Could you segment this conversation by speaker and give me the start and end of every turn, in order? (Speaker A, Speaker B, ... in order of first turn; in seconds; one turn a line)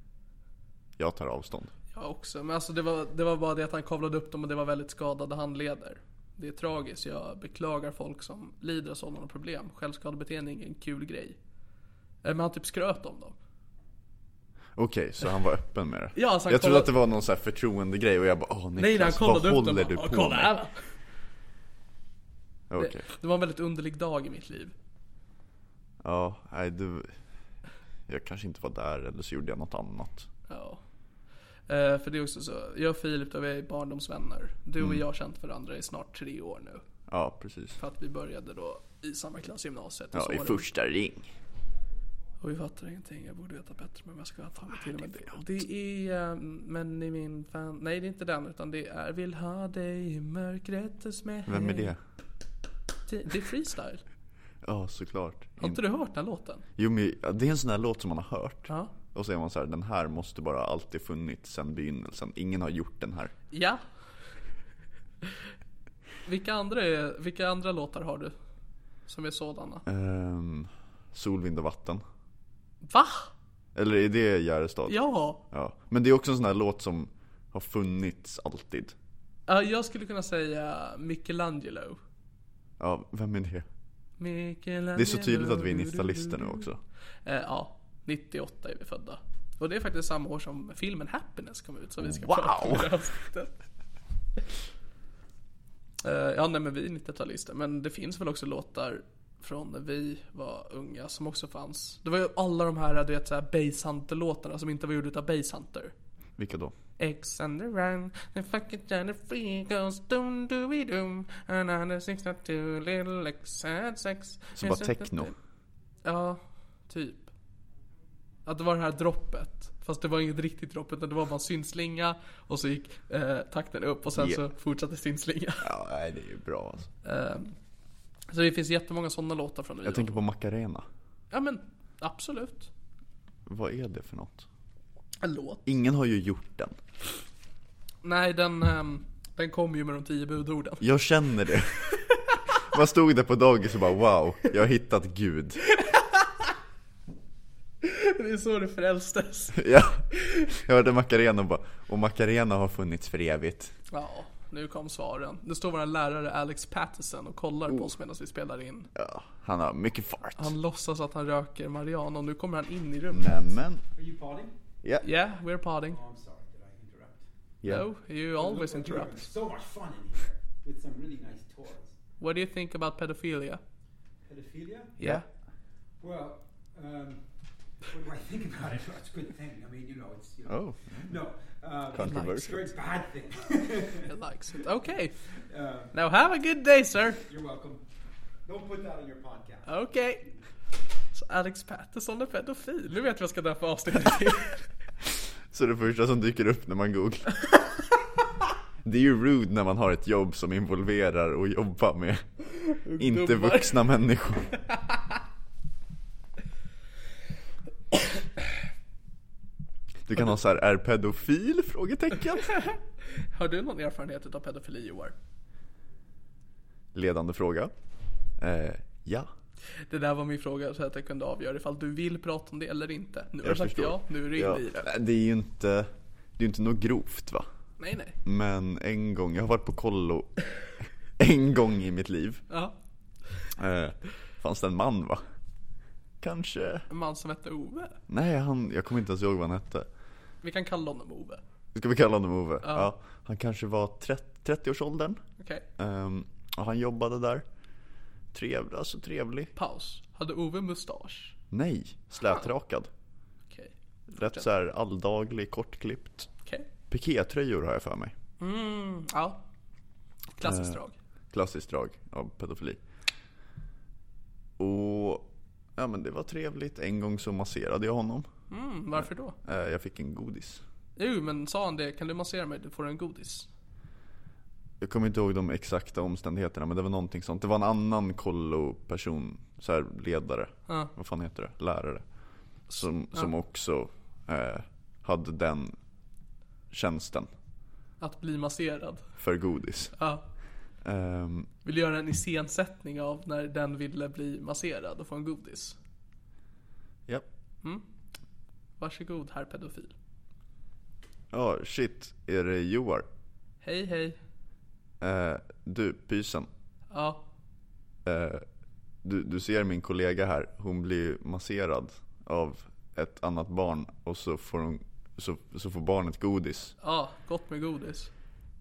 Speaker A: 1.0-1.7
Speaker B: 1.9-11.4
Speaker B: 12.2-13.3
Speaker A: 14.8-20.5
Speaker B: 16.1-16.9
Speaker B: 18.8-20.9
Speaker A: 22.7-23.0
Speaker B: 22.8-24.7
Speaker A: 26.0-27.2
Speaker A: 28.1-30.3
Speaker B: 30.5-30.8
Speaker B: 31.7-36.8
Speaker A: 37.1-37.8
Speaker B: 37.8-40.7
Speaker A: 40.1-41.3
Speaker B: 42.4-51.9
Speaker A: 51.5-52.0
Speaker B: 53.1-54.0
Speaker A: 54.6-55.8
Speaker B: 55.6-56.6
Speaker A: 56.8-63.3
Speaker B: 63.5-63.8
Speaker B: 66.2-68.3
Speaker B: 69.1-69.8
Speaker A: 69.8-72.0
Speaker B: 72.8-73.3
Speaker A: 73.7-75.0
Speaker B: 74.9-75.4
Speaker A: 75.5-78.9
Speaker B: 79.5-82.0
Speaker A: 82.8-83.7
Speaker B: 84.2-86.7
Speaker A: 84.9-86.8
Speaker B: 87.2-93.5
Speaker A: 92.0-92.9
Speaker B: 96.0-105.9
Speaker A: 106.4-106.7
Speaker B: 107.0-115.3
Speaker A: 114.5-115.3
Speaker B: 116.0-117.3
Speaker B: 118.5-125.7
Speaker A: 124.1-124.4
Speaker A: 125.6-126.9
Speaker B: 127.0-127.5
Speaker B: 128.3-130.2
Speaker A: 129.8-130.8
Speaker B: 131.3-132.7
Speaker A: 133.4-134.5
Speaker B: 135.2-135.6
Speaker A: 135.7-136.8
Speaker B: 138.0-140.9
Speaker A: 140.8-142.0
Speaker B: 142.0-142.4
Speaker A: 142.6-145.6
Speaker B: 145.7-146.3
Speaker B: 147.8-149.6
Speaker A: 149.6-153.7
Speaker B: 150.1-150.5
Speaker B: 153.9-158.9
Speaker A: 158.9-160.5
Speaker B: 160.4-163.5
Speaker A: 163.1-163.8
Speaker C: 163.9-164.5
Speaker B: 165.0-166.0
Speaker C: 165.9-167.2
Speaker B: 167.7-169.3
Speaker C: 168.3-171.9
Speaker B: 172.2-173.6
Speaker C: 174.2-175.0
Speaker C: 176.0-177.2
Speaker C: 177.9-184.1
Speaker A: 180.4-181.2
Speaker A: 181.9-182.6
Speaker B: 182.0-182.7
Speaker B: 184.1-185.2
Speaker C: 185.5-185.9
Speaker B: 185.9-187.2
Speaker C: 187.3-187.8
Speaker C: 188.4-189.7
Speaker B: 189.7-190.3
Speaker B: 191.1-194.7
Speaker A: 195.5-197.4
Speaker A: 198.8-202.2
Speaker B: 202.6-203.8
Speaker A: 203.0-204.5
Speaker B: 204.7-205.0
Speaker A: 210.1-212.6
Speaker B: 212.6-215.1
Speaker A: 216.9-217.7
Speaker A: 218.4-219.3
Speaker B: 219.9-224.9
Speaker A: 223.4-227.5
Speaker B: 227.8-228.2
Speaker A: 228.2-230.4
Speaker A: 231.2-232.4
Speaker B: 232.5-232.7
Speaker A: 233.6-235.2
Speaker A: 236.2-236.8
Speaker B: 236.9-238.0
Speaker A: 238.1-239.9
Speaker B: 240.4-241.4
Speaker A: 241.7-245.2
Speaker B: 242.6-242.9
Speaker B: 245.4-245.7
Speaker A: 245.8-247.4
Speaker A: 248.3-249.5
Speaker B: 249.6-251.3
Speaker A: 251.5-252.9
Speaker B: 253.5-254.5
Speaker A: 254.1-256.3
Speaker A: 256.9-258.1
Speaker B: 258.4-259.4
Speaker B: 260.4-260.9
Speaker A: 260.4-262.8
Speaker A: 264.6-268.3
Speaker B: 268.5-269.4
Speaker A: 269.0-270.6
Speaker B: 270.9-273.5
Speaker A: 274.8-282.0
Speaker B: 282.7-283.3
Speaker A: 282.7-285.8
Speaker A: 286.7-287.3
Speaker B: 288.0-289.1
Speaker A: 289.2-289.9
Speaker B: 289.9-290.2
Speaker A: 290.8-291.5
Speaker B: 291.6-295.8
Speaker B: 298.8-299.9
Speaker A: 301.3-303.1
Speaker B: 303.6-304.2
Speaker A: 305.0-306.5
Speaker B: 306.9-307.2
Speaker A: 308.0-308.4
Speaker A: 309.0-316.7
Speaker B: 316.8-318.1